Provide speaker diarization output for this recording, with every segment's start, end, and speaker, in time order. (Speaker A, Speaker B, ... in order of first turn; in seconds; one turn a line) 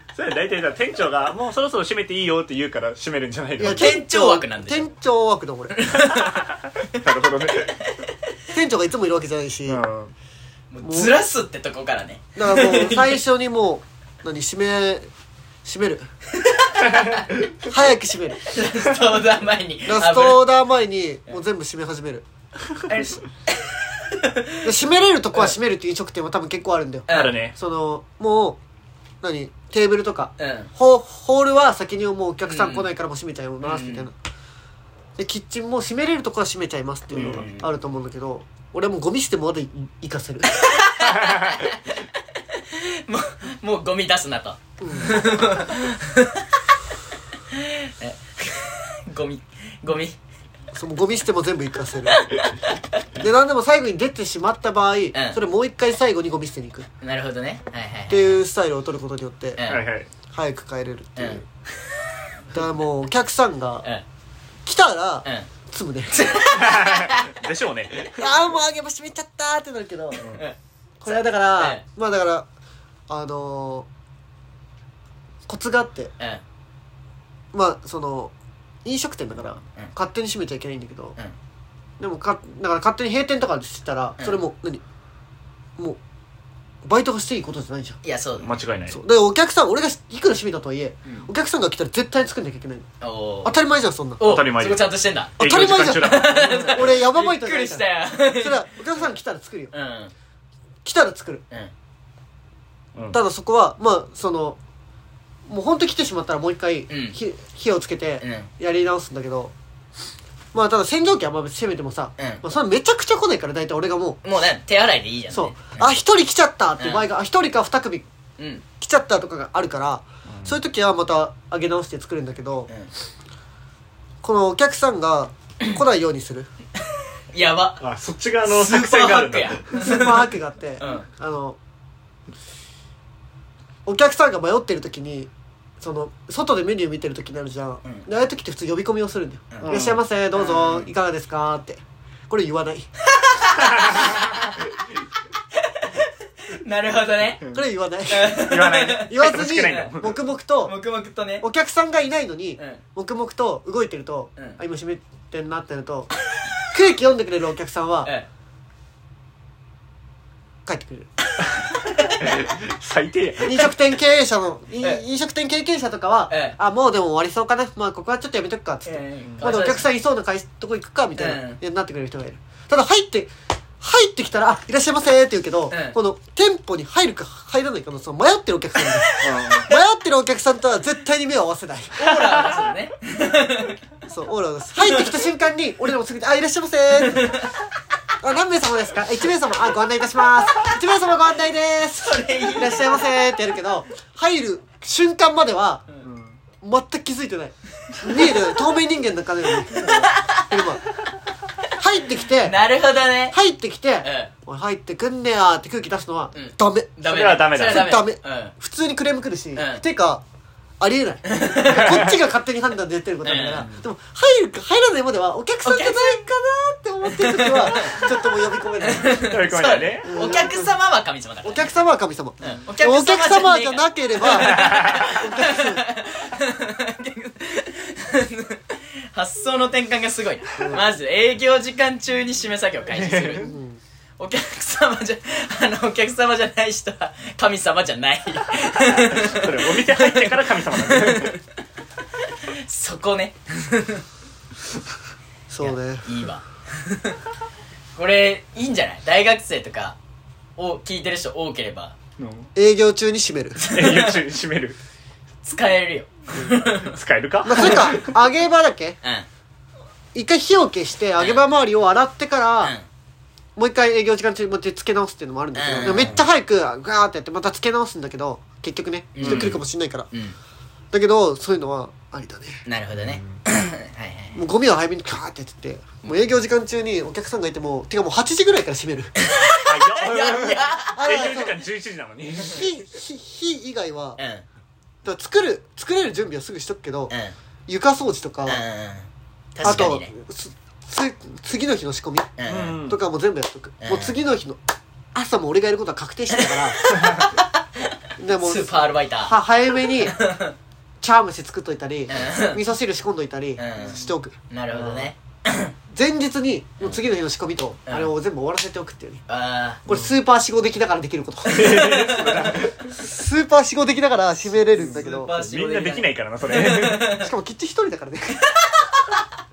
Speaker A: 0.1-3.9
Speaker B: 3.6-5.8
Speaker C: 3.6-4.9
Speaker C: 5.7-8.1
Speaker A: 5.9-7.8
Speaker B: 8.5-9.8
Speaker A: 9.7-10.1
Speaker C: 10.7-13.2
Speaker B: 10.8-11.1
Speaker B: 12.3-15.1
Speaker B: 15.6-16.1
Speaker C: 16.3-17.3
Speaker B: 17.6-18.4
Speaker C: 18.4-20.4
Speaker B: 19.9-22.2
Speaker C: 22.9-24.7
Speaker B: 24.6-28.6
Speaker C: 27.1-27.4
Speaker A: 27.1-27.5
Speaker B: 29.2-34.1
Speaker C: 30.4-30.7
Speaker C: 32.5-32.9
Speaker C: 33.6-34.1
Speaker B: 35.2-40.6
Speaker C: 37.1-37.7
Speaker A: 37.1-37.4
Speaker C: 40.5-46.6
Speaker A: 41.1-41.7
Speaker B: 44.8-45.3
Speaker C: 47.5-50.2
Speaker B: 50.7-52.2
Speaker C: 52.1-52.8
Speaker B: 53.1-56.9
Speaker C: 55.1-55.4
Speaker C: 57.0-58.4
Speaker B: 58.1-59.6
Speaker C: 59.5-59.9
Speaker A: 59.7-60.1
Speaker B: 60.3-61.4
Speaker C: 61.1-61.4
Speaker B: 62.5-63.9
Speaker B: 64.6-66.3
Speaker C: 66.1-67.3
Speaker A: 66.4-68.4
Speaker B: 68.1-70.2
Speaker C: 70.2-70.6
Speaker B: 71.0-72.5
Speaker C: 71.1-71.8
Speaker B: 73.1-73.9
Speaker B: 75.5-76.1
Speaker B: 77.5-78.3
Speaker B: 78.8-81.2
Speaker B: 82.0-84.8
Speaker B: 86.8-88.0
Speaker C: 88.0-88.5
Speaker A: 88.4-89.0
Speaker B: 88.9-92.9
Speaker C: 93.0-93.6
Speaker B: 93.4-94.3
Speaker C: 94.2-99.0
Speaker A: 94.2-96.9
Speaker B: 95.4-99.7
Speaker C: 99.7-100.1
Speaker B: 100.8-101.4
Speaker B: 103.1-104.6
Speaker B: 105.5-109.5
Speaker C: 106.9-107.2
Speaker C: 108.2-108.5
Speaker B: 110.5-114.2
Speaker C: 112.2-112.4
Speaker C: 114.2-115.9
Speaker B: 115.3-118.1
Speaker C: 116.8-117.1
Speaker C: 118.4-118.6
Speaker B: 118.8-122.7
Speaker A: 120.3-120.6
Speaker B: 124.2-126.5
Speaker C: 127.3-127.8
Speaker A: 127.8-129.8
Speaker C: 128.4-130.2
Speaker B: 129.7-131.6
Speaker C: 130.8-131.1
Speaker B: 133.8-142.9
Speaker C: 139.5-139.8
Speaker A: 139.6-140.0
Speaker C: 140.3-140.8
Speaker C: 143.1-144.8
Speaker A: 143.6-144.5
Speaker C: 145.5-147.4
Speaker B: 147.5-148.4
Speaker C: 148.1-149.9
Speaker A: 148.2-150.2
Speaker B: 149.1-150.7
Speaker C: 150.6-151.4
Speaker B: 151.4-156.1
Speaker B: 156.7-158.1
Speaker B: 160.7-161.1
Speaker C: 161.4-162.4
Speaker A: 162.0-163.7
Speaker B: 163.4-182.5
Speaker C: 166.3-166.6
Speaker C: 168.8-169.8
Speaker C: 171.2-171.6
Speaker C: 175.7-175.9
Speaker C: 178.9-179.8
Speaker A: 179.2-179.7
Speaker C: 181.9-183.8
Speaker B: 184.1-187.4
Speaker C: 184.8-185.1
Speaker C: 187.0-187.6
Speaker B: 188.2-195.8
Speaker C: 192.0-193.2
Speaker A: 196.0-196.4
Speaker B: 196.6-200.8
Speaker C: 197.9-198.5
Speaker C: 199.7-200.7
Speaker A: 199.7-200.1
Speaker C: 201.6-203.4
Speaker B: 201.8-202.6
Speaker B: 203.3-206.9
Speaker C: 204.0-204.3
Speaker C: 206.3-208.5
Speaker A: 207.1-208.0
Speaker B: 207.5-210.2
Speaker C: 209.6-209.8
Speaker B: 210.8-219.3
Speaker C: 211.2-212.0
Speaker A: 211.7-212.2
Speaker C: 213.2-213.7
Speaker A: 213.5-213.8
Speaker C: 215.6-216.2
Speaker C: 217.0-218.1
Speaker C: 218.8-221.7
Speaker A: 219.1-220.2
Speaker B: 220.0-220.7
Speaker B: 221.4-225.9
Speaker C: 222.4-233.5
Speaker A: 224.3-225.1
Speaker B: 230.6-230.8
Speaker A: 232.9-233.4
Speaker B: 233.4-233.8
Speaker C: 234.2-241.4
Speaker A: 238.8-241.4
Speaker C: 242.2-244.0
Speaker B: 245.5-246.1
Speaker C: 245.6-247.2
Speaker C: 247.9-250.0
Speaker C: 250.6-251.9
Speaker A: 252.2-252.5
Speaker B: 252.5-253.6
Speaker C: 253.6-254.2
Speaker A: 253.7-254.8
Speaker C: 255.4-257.0
Speaker A: 256.4-258.1
Speaker B: 257.4-259.0
Speaker C: 257.5-257.9
Speaker B: 260.1-262.8
Speaker C: 261.2-261.4
Speaker B: 263.6-270.1
Speaker C: 265.5-266.1
Speaker A: 265.8-266.2
Speaker C: 269.1-269.6
Speaker A: 269.2-269.6
Speaker B: 270.9-272.6
Speaker C: 272.6-274.4
Speaker A: 273.0-273.4
Speaker B: 274.3-279.1
Speaker C: 279.2-281.0
Speaker A: 279.6-282.7
Speaker B: 280.9-281.6
Speaker B: 282.4-284.2
Speaker C: 284.2-284.4
Speaker B: 285.0-287.1
Speaker C: 287.1-287.3
Speaker B: 287.7-288.6
Speaker C: 288.4-290.1
Speaker B: 289.6-294.6
Speaker C: 292.4-292.8
Speaker A: 292.5-293.0
Speaker C: 293.8-294.1
Speaker B: 295.1-296.8
Speaker C: 296.3-300.5
Speaker B: 298.2-300.2
Speaker B: 301.0-305.1
Speaker C: 302.1-302.6
Speaker C: 303.6-305.7
Speaker B: 305.9-309.2
Speaker C: 307.9-308.1
Speaker C: 309.3-309.8
Speaker B: 309.9-312.0
Speaker C: 311.5-312.6
Speaker A: 311.5-313.0
Speaker B: 313.0-315.3
Speaker C: 314.5-317.3
Speaker A: 315.4-317.1
Speaker B: 317.2-318.4
Speaker C: 318.4-319.2